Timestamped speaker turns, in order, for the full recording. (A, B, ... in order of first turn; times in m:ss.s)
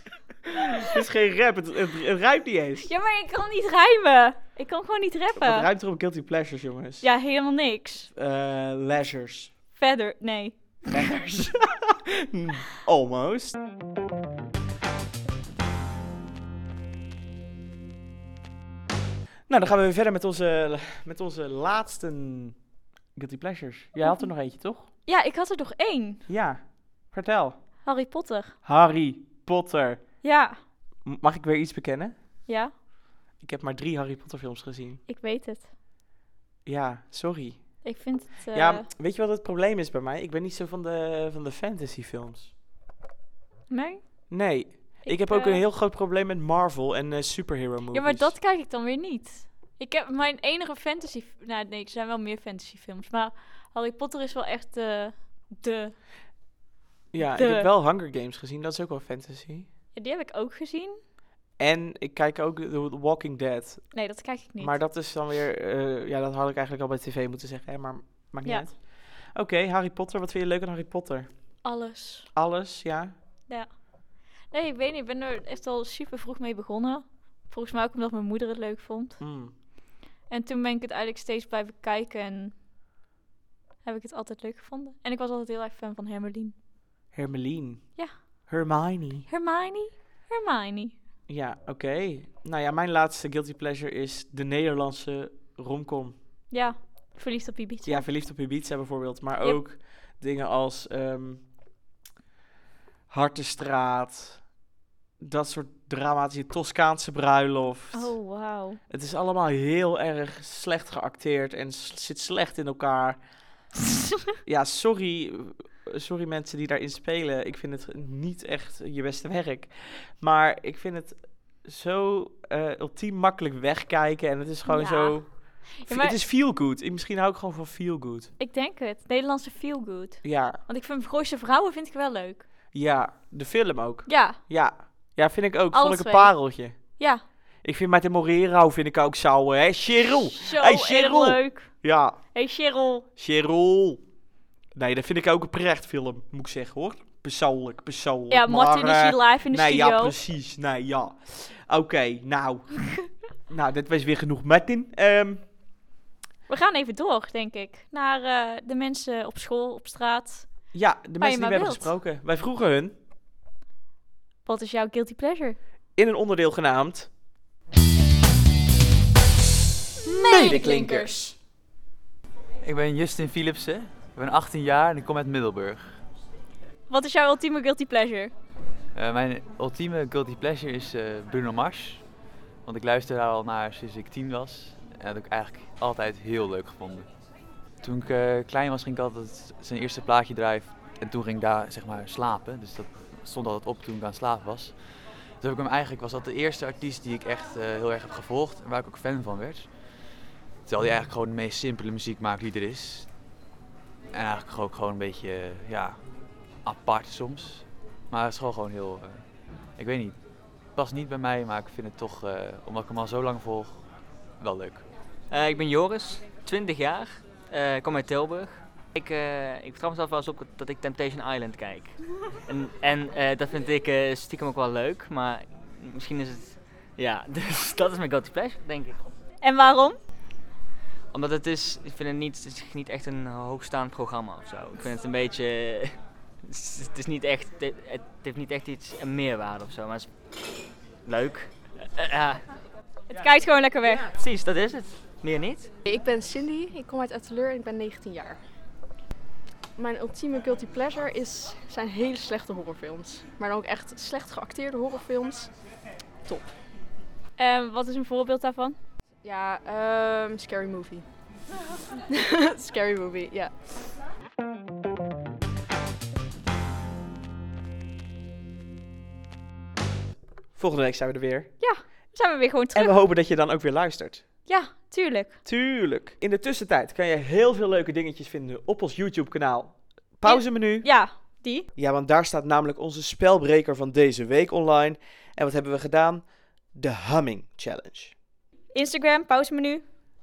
0:00.5-0:02.9 A
0:02.8-0:05.7 B
0:05.4-0:07.1 A
0:07.0-0:08.1 B
0:08.1-0:09.5 A
0:09.8-0:10.6 B
0:10.9-0:13.6 A
0:19.5-0:22.6 A
0:23.2-0:24.9 A
0:25.1-0:26.2 B
0:26.3-0:27.6 A
0:27.8-0:28.5 B
0:28.6-0:30.0 A
0:30.2-0:30.6 B
0:31.0-0:32.2 A
0:32.5-0:32.7 B
0:33.4-0:35.0 A
0:35.1-0:35.7 B
0:36.7-0:37.8 A
0:37.8-0:38.9 B
0:38.5-0:42.5 A
0:43.7-0:44.3 B
0:44.3-0:48.4 A
0:45.0-0:45.6 B
0:47.9-0:56.0 B
0:57.1-0:59.7 A
0:57.2-0:57.7 B
0:59.9-1:01.0 B
1:01.6-1:04.0 A
1:03.9-1:04.8 B
1:04.6-1:11.3 A
1:11.6-1:12.3 B
1:12.3-1:13.1 A
1:13.5-1:13.8 B
1:14.5-1:19.2 B
1:19.2-1:19.5 A
1:20.3-1:22.5 B
1:23.8-1:26.6 B
1:27.1-1:29.3 A
1:29.3-1:31.0 B
1:31.3-1:36.2 A
1:36.5-1:38.0 B
1:37.8-1:41.4 A
1:43.1-1:44.5 A
1:45.2-1:48.2 A
1:47.9-1:48.8 B
1:48.9-1:53.2 A
1:54.4-2:08.3 A
2:04.7-2:06.2 B
2:08.4-2:12.4 B
2:10.2-2:10.6 A
2:12.7-2:17.0 A
2:14.1-2:14.4 B
2:15.7-2:17.2 B
2:17.6-2:22.2 A
2:20.3-2:21.7 B
2:22.3-2:23.1 B
2:23.2-2:24.0 A
2:24.7-2:32.7 A
2:28.3-2:30.2 B
2:33.5-2:35.5 A
2:36.5-2:40.5 B
2:40.7-2:42.9 A
2:41.2-2:41.9 B
2:44.5-2:45.6 B
2:46.0-2:47.1 A
2:50.1-2:51.0 B
2:50.2-2:51.3 C
2:50.3-2:51.1 A
2:52.6-2:56.0 D
2:56.9-2:58.3 B
2:58.9-3:02.0 D
3:02.6-3:07.1 D
3:07.8-3:19.7 D
3:20.7-3:23.1 D
3:24.1-3:26.0 D
3:26.6-3:29.2 D
3:29.8-3:30.2 D
3:30.7-3:33.8 D
3:34.4-3:34.9 D
3:35.3-3:49.0 E
3:49.4-3:50.0 B
3:51.1-4:00.1 E
4:01.0-4:02.4 E
4:03.1-4:04.1 B
4:04.0-4:05.7 E
4:05.9-4:08.4 C
4:09.8-4:15.5 C
4:17.4-4:18.8 B
4:19.2-4:21.0 C
4:22.1-4:23.5 C
4:30.6-4:31.5 A
4:31.6-4:33.0 B
4:32.7-4:34.2 A
4:34.5-4:35.4 B
4:35.4-4:41.0 A
4:40.2-4:41.7 B
4:41.8-4:48.2 A
4:48.7-4:49.8 B